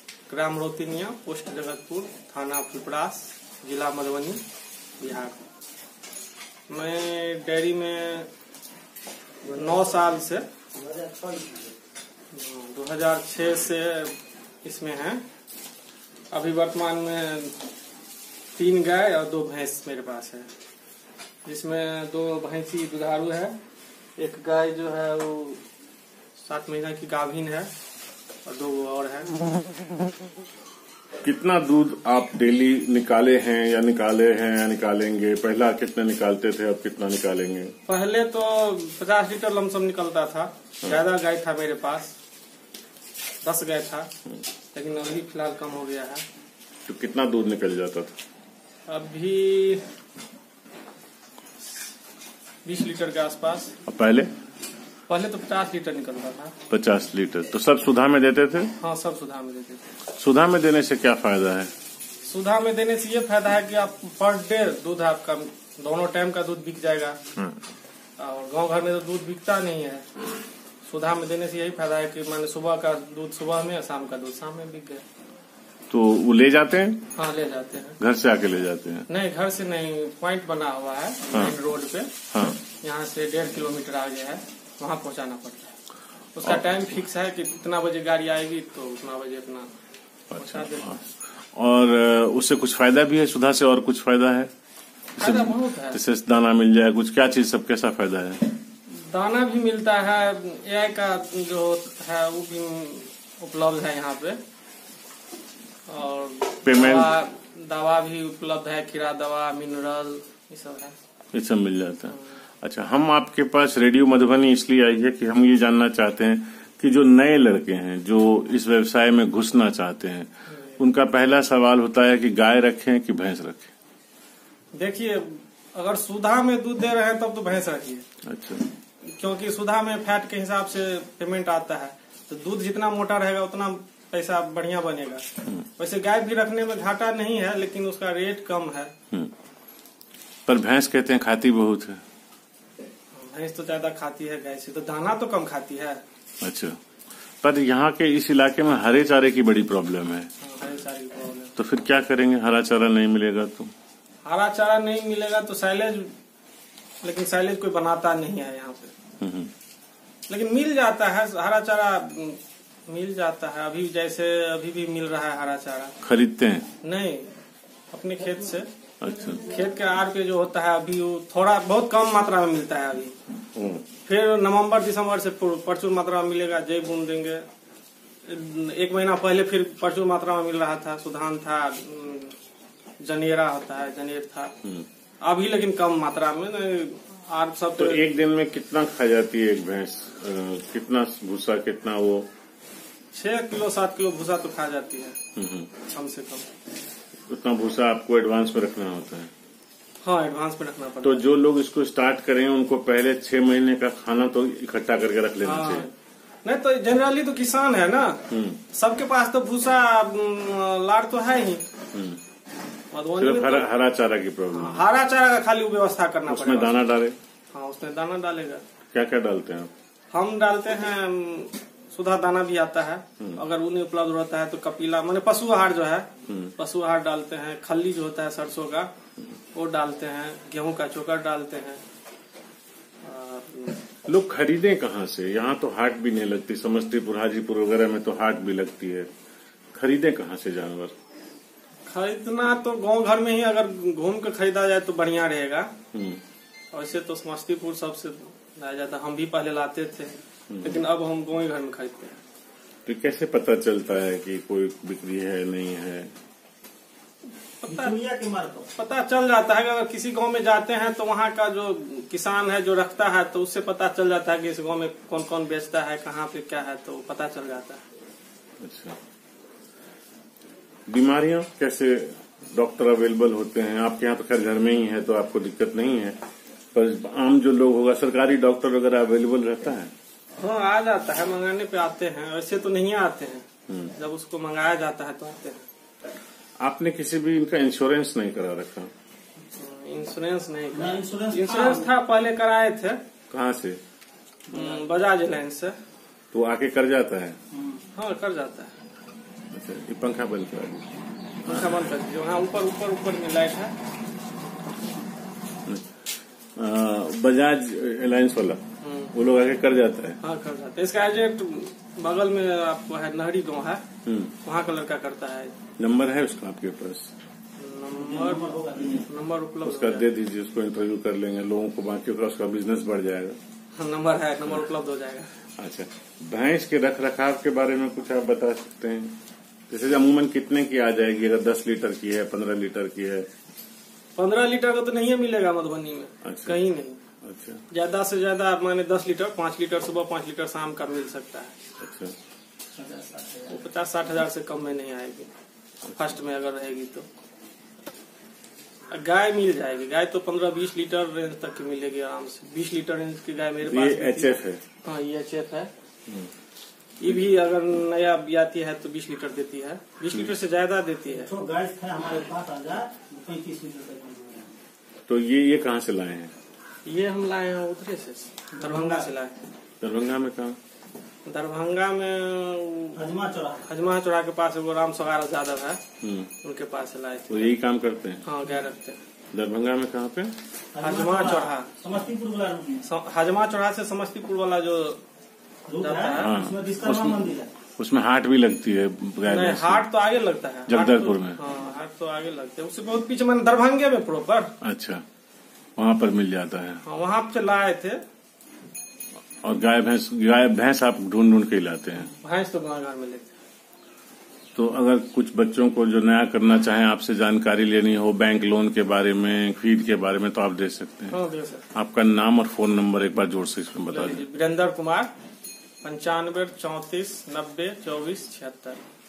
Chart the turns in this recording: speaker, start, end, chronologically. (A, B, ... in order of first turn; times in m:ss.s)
0:00.3-0:04.4 A
0:05.0-0:05.4 A
0:06.7-0:08.3 A
0:09.5-0:10.5 A
0:09.5-0:09.9 B
0:10.7-0:11.7 B
0:12.3-0:15.2 A
0:16.3-0:17.6 A
0:18.6-0:20.5 A
0:21.4-0:23.6 A
0:24.2-0:25.6 A
0:26.4-0:27.7 A
0:28.4-0:29.4 A
0:31.2-0:37.8 C
0:37.9-0:42.1 A
0:43.4-0:44.1 A
0:44.7-0:46.2 A
0:46.9-0:48.1 C
0:48.9-0:49.8 A
0:52.6-0:53.8 A
0:53.9-0:54.3 C
0:55.1-0:56.6 A
0:56.7-0:58.7 C
0:58.8-0:59.9 A
1:00.1-1:01.7 C
1:02.2-1:07.2 A
1:08.2-1:10.1 A
1:10.8-1:15.0 A
1:15.9-1:17.0 C
1:17.2-1:18.0 A
1:18.0-1:19.1 C
1:19.1-1:22.1 A
1:22.3-1:22.6 C
1:22.8-1:25.7 A
1:26.4-1:29.7 A
1:26.4-1:26.8 C
1:30.3-1:34.5 C
1:30.4-1:30.9 A
1:35.2-1:36.0 A
1:35.2-1:38.5 C
1:38.9-1:44.4 A
1:45.9-1:51.0 A
1:46.6-1:47.1 C
1:51.3-2:03.7 C
2:00.5-2:00.8 A
2:04.7-2:08.0 A
2:08.2-2:08.7 C
2:09.2-2:18.9 A
2:20.5-2:22.0 C
2:23.1-2:26.0 A
2:26.4-2:26.8 C
2:27.4-2:30.3 C
2:30.4-2:31.5 A
2:31.6-2:33.7 C
2:34.3-2:36.1 A
2:37.0-2:39.0 A
2:39.2-2:39.5 C
2:40.3-2:45.9 A
2:46.0-2:46.7 C
2:46.8-2:47.3 A
2:47.9-2:48.7 A
2:49.0-2:49.5 C
2:49.3-2:53.2 A
2:53.6-2:53.9 C
2:54.0-2:57.5 A
2:58.2-3:02.4 A
3:03.0-3:04.5 A
3:05.2-3:08.0 A
3:07.8-3:12.3 C
3:13.1-3:15.2 A
3:15.4-3:15.7 C
3:15.8-3:16.5 A
3:17.3-3:19.3 C
3:20.0-3:21.2 A
3:21.0-3:25.9 C
3:25.4-3:25.9 A
3:26.4-3:31.6 A
3:28.3-3:28.6 C
3:31.9-3:32.2 C
3:32.9-3:33.7 A
3:33.2-3:34.9 C
3:34.5-3:36.8 A
3:36.3-3:37.2 C
3:37.5-3:38.6 A
3:38.9-3:39.7 C
3:40.1-3:48.9 A
3:46.3-3:46.5 C
3:49.6-3:51.8 A
3:53.0-3:53.9 A
3:54.0-3:59.1 C
3:59.8-4:00.9 C
4:01.9-4:05.7 A
4:05.9-4:06.2 C
4:06.7-4:12.2 A
4:10.5-4:10.8 C
4:12.9-4:16.1 C
4:17.6-4:18.0 A
4:17.7-4:18.7 B
4:18.8-4:27.8 A
4:28.6-4:29.0 C
4:30.9-4:36.2 C
4:36.7-4:39.9 C
4:40.4-4:45.7 A
4:43.7-4:44.0 C
4:46.6-4:48.9 C
4:49.5-4:53.0 A
4:50.7-4:51.9 B
4:53.3-4:53.8 C
4:54.5-4:55.8 A
4:54.5-4:54.8 B
4:56.3-4:57.4 C
4:57.5-4:57.8 B
4:57.9-4:58.8 A
4:59.5-5:00.9 C
5:01.4-5:03.8 A
5:01.4-5:01.9 C
5:06.6-5:08.6 C
5:08.8-5:09.1 A
5:09.1-5:10.2 C
5:10.2-5:13.8 A
5:14.0-5:14.4 C
5:14.4-5:15.6 A
5:15.8-5:17.1 C
5:17.6-5:20.1 A
5:18.0-5:19.1 B
5:19.6-5:23.4 C
5:23.8-5:25.3 A
5:25.6-5:29.1 C
5:29.7-5:33.3 C
5:34.2-5:37.0 A
5:36.2-5:36.6 C
5:37.2-5:37.6 C
5:37.7-5:41.6 A
5:41.8-5:42.1 C
5:42.8-5:43.6 B
5:43.5-5:45.3 A
5:46.0-5:47.1 A
5:48.9-5:55.7 A
5:53.6-5:54.6 C
5:57.0-6:01.3 A
6:01.2-6:04.5 B
6:05.1-6:06.3 C
6:06.8-6:09.4 A
6:08.6-6:09.1 B
6:09.8-6:10.6 C
6:11.3-6:13.0 A
6:13.0-6:13.7 B
6:13.7-6:15.8 A
6:16.0-6:16.3 C
6:16.4-6:17.5 A
6:17.3-6:18.2 C
6:18.2-6:19.0 A
6:19.3-6:20.4 C
6:20.7-6:22.8 B
6:20.8-6:21.7 A
6:22.8-6:25.0 A
6:25.7-6:27.5 B
6:25.8-6:26.4 A
6:26.2-6:29.9 C
6:29.3-6:34.5 A
6:30.7-6:31.4 C
6:34.6-6:35.0 C
6:35.8-6:36.8 C
6:36.8-6:38.0 A
6:39.4-6:42.1 C
6:42.2-6:43.4 A
6:44.6-6:54.3 C
6:51.1-6:51.7 A
6:53.9-6:55.1 A
6:55.8-6:58.8 A